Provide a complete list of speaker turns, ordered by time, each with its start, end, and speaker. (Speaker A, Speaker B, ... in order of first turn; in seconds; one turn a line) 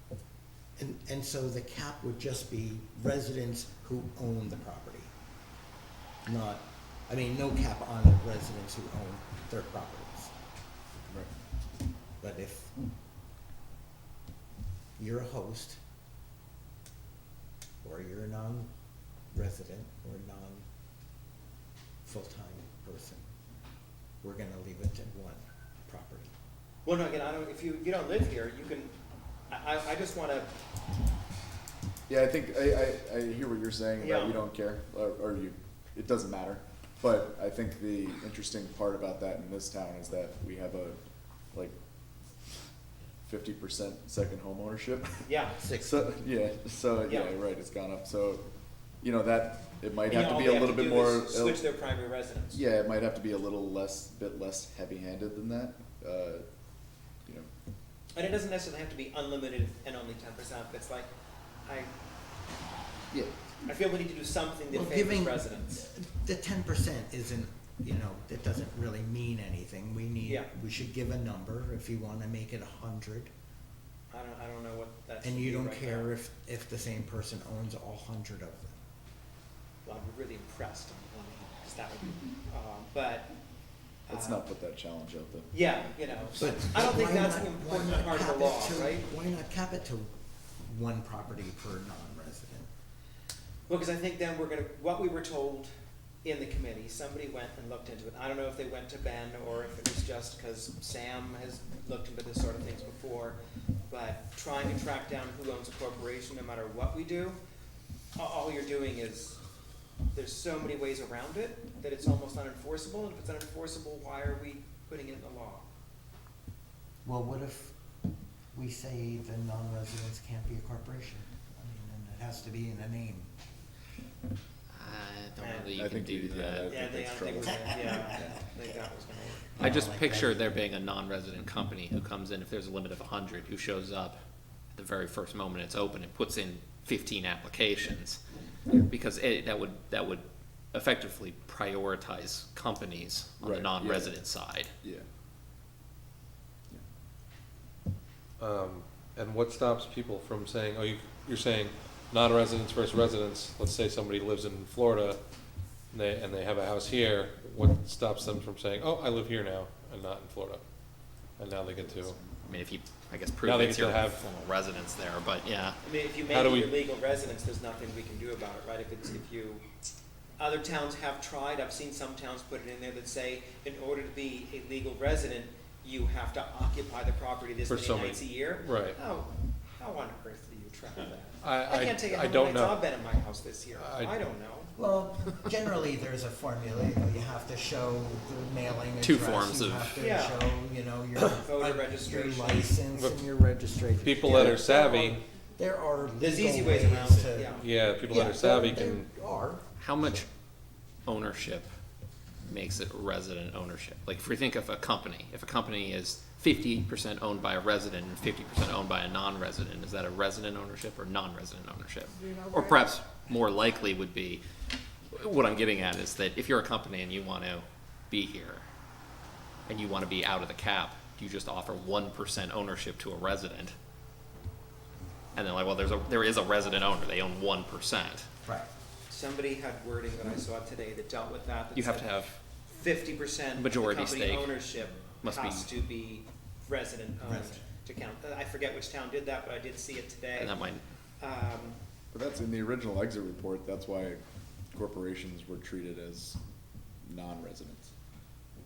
Speaker A: 0.8-5.1
Speaker A: 6.2-10.3
Speaker A: 10.9-11.4
Speaker A: 12.2-12.7
Speaker A: 15.0-15.8
Speaker A: 17.8-18.7
Speaker A: 19.3-20.6
Speaker A: 22.0-23.2
Speaker A: 24.2-26.3
Speaker B: 26.9-29.0
Speaker B: 29.5-30.6
Speaker C: 32.1-41.0
Speaker B: 34.0-34.4
Speaker C: 43.3-45.3
Speaker B: 45.3-45.6
Speaker A: 45.6-46.1
Speaker C: 45.8-48.4
Speaker B: 47.1-47.4
Speaker C: 49.0-51.6
Speaker B: 50.1-52.6
Speaker C: 52.5-56.5
Speaker B: 58.1-61.1
Speaker B: 61.7-61.9
Speaker B: 63.6-65.9
Speaker A: 64.7-73.3
Speaker B: 70.2-70.5
Speaker B: 74.1-76.1
Speaker A: 75.2-78.8
Speaker B: 79.8-83.3
Speaker B: 84.1-84.5
Speaker C: 84.1-85.5
Speaker B: 85.5-89.0
Speaker A: 86.3-90.1
Speaker A: 90.7-92.7
Speaker B: 93.7-95.7
Speaker B: 96.2-107.4
Speaker B: 108.2-109.4
Speaker B: 110.1-115.7
Speaker A: 117.0-117.8
Speaker A: 118.5-123.3
Speaker D: 124.7-127.2
Speaker B: 125.4-125.7
Speaker C: 125.8-128.4
Speaker B: 126.7-129.6
Speaker A: 127.4-128.8
Speaker A: 129.4-130.5
Speaker D: 129.6-134.2
Speaker D: 134.8-144.7
Speaker C: 143.4-144.2
Speaker E: 148.4-155.2
Speaker E: 155.9-160.6
Speaker E: 161.4-162.2
Speaker C: 161.6-162.5
Speaker D: 162.4-165.8
Speaker E: 163.4-164.2
Speaker B: 165.8-169.6
Speaker E: 166.3-166.7
Speaker B: 170.4-184.7
Speaker E: 177.7-179.0
Speaker E: 181.4-182.8
Speaker E: 183.8-184.2
Speaker A: 184.8-199.7
Speaker D: 189.0-190.0
Speaker B: 190.0-190.5
Speaker B: 191.4-192.8
Speaker E: 192.9-193.2
Speaker E: 194.0-195.2
Speaker B: 196.2-197.7
Speaker E: 197.6-199.1
Speaker D: 199.8-200.3
Speaker D: 201.1-201.7
Speaker D: 202.5-214.4
Speaker D: 215.1-218.6
Speaker D: 219.7-223.8
Speaker D: 225.3-228.3
Speaker A: 228.4-228.7
Speaker B: 229.1-240.6
Speaker D: 231.8-232.4
Speaker D: 233.6-234.6
Speaker D: 235.2-235.7
Speaker A: 237.2-237.7
Speaker D: 240.3-240.8
Speaker B: 241.2-241.8
Speaker C: 242.1-244.2
Speaker C: 244.7-246.4
Speaker C: 247.0-247.9